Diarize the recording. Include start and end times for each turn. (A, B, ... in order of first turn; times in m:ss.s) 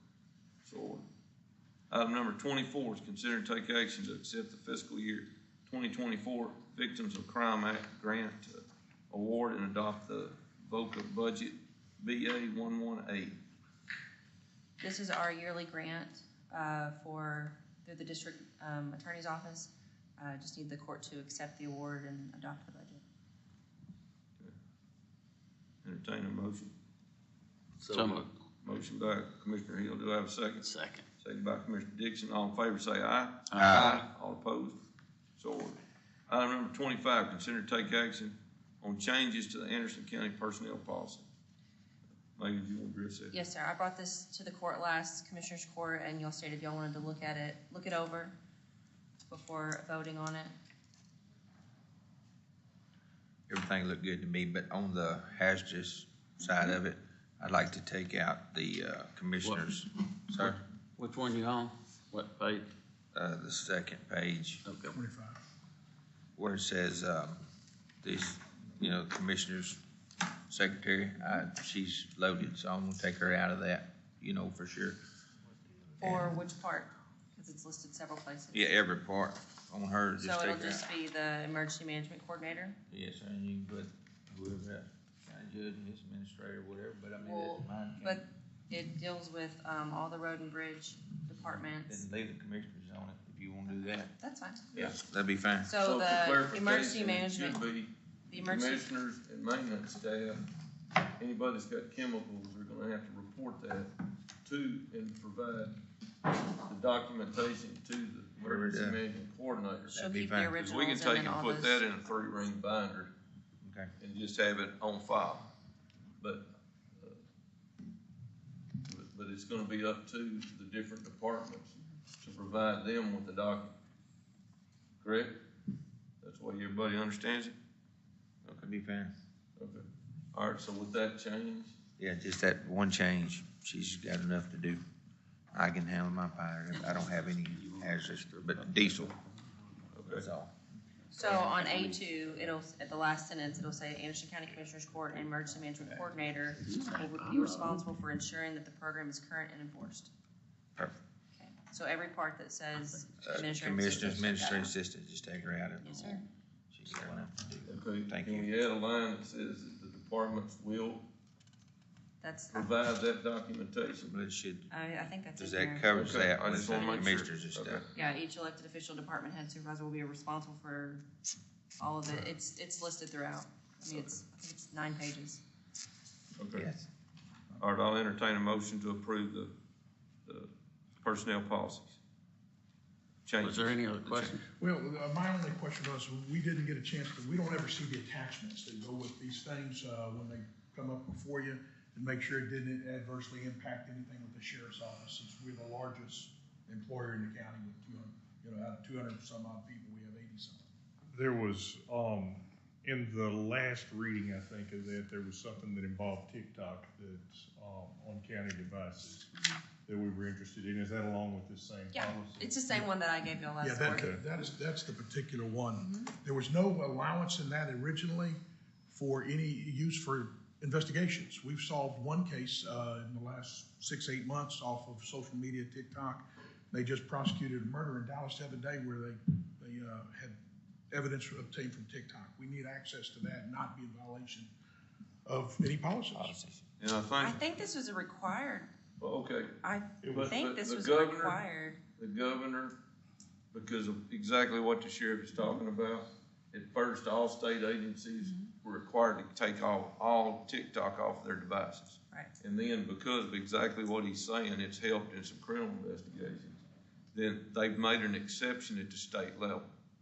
0:00.6-0:01.0 A
0:01.9-0:13.4 A
0:14.8-0:23.0 B
0:25.8-0:26.7 A
0:27.8-0:28.2 C
0:28.6-0:30.6 A
0:30.6-0:31.0 C
0:31.2-0:34.8 A
0:33.5-0:34.0 D
0:35.4-0:35.8 A
0:36.3-0:41.3 A
0:42.4-0:43.4 A
0:43.3-0:48.3 B
0:49.3-0:50.5 B
0:53.5-1:00.6 D
1:01.0-1:02.6 C
1:03.1-1:04.6 D
1:04.9-1:05.4 E
1:06.4-1:07.4 D
1:08.0-1:09.8 D
1:10.5-1:15.0 D
1:16.0-1:18.7 B
1:18.5-1:20.8 D
1:20.2-1:22.8 B
1:22.9-1:28.2 D
1:27.2-1:32.0 B
1:31.9-1:34.1 D
1:34.2-1:34.6 B
1:34.7-1:35.0 A
1:34.7-1:35.7 D
1:35.6-1:37.6 B
1:35.8-1:40.4 A
1:38.3-1:38.8 B
1:41.2-1:43.9 A
1:44.4-1:45.8 A
1:46.6-1:49.9 A
1:48.4-1:49.0 D
1:49.9-1:50.5 D
1:49.9-1:51.8 B
1:50.6-1:53.1 A
1:53.6-1:53.9 D
1:54.0-1:55.5 A
1:56.2-1:57.2 A
1:58.8-2:03.8 A
2:05.0-2:05.4 A
2:06.2-2:07.6 A
2:08.4-2:08.7 A
2:08.6-2:09.1 D
2:09.6-2:11.8 A
2:12.0-2:14.8 D
2:15.5-2:19.2 D
2:17.8-2:18.6 C
2:19.9-2:20.3 A
2:20.0-2:20.5 D
2:21.1-2:30.1 B
2:21.2-2:21.8 D
2:26.7-2:27.5 C
2:31.3-2:34.7 B
2:33.2-2:36.2 D
2:35.8-2:36.2 B
2:36.7-2:38.5 D
2:37.6-2:41.0 A
2:42.2-2:42.7 B
2:42.5-2:44.1 A
2:44.1-2:44.7 D
2:44.7-2:47.1 B
2:45.4-2:47.8 D
2:45.9-2:47.9 A
2:47.9-2:51.0 B
2:51.8-2:55.4 B
2:56.4-2:56.7 A
2:56.6-2:56.8 D
2:57.6-2:59.5 A
3:00.2-3:00.5 A
3:01.0-3:02.0 A
3:03.2-3:04.4 A
3:03.4-3:04.4 C
3:04.6-3:20.6 E
3:21.1-3:29.3 F
3:29.8-3:32.6 F
3:31.9-3:34.1 B
3:33.6-3:50.4 E
3:33.8-3:34.2 F
3:35.8-3:36.1 B
3:50.9-3:54.5 E
3:55.2-3:56.3 E
3:56.1-3:56.6 D
3:56.8-3:57.4 A
3:57.2-3:58.7 B
3:59.0-3:59.6 A
3:59.6-4:01.8 B
4:00.0-4:00.4 F
4:00.1-4:01.4 A
4:02.0-4:02.8 A
4:03.5-4:19.7 A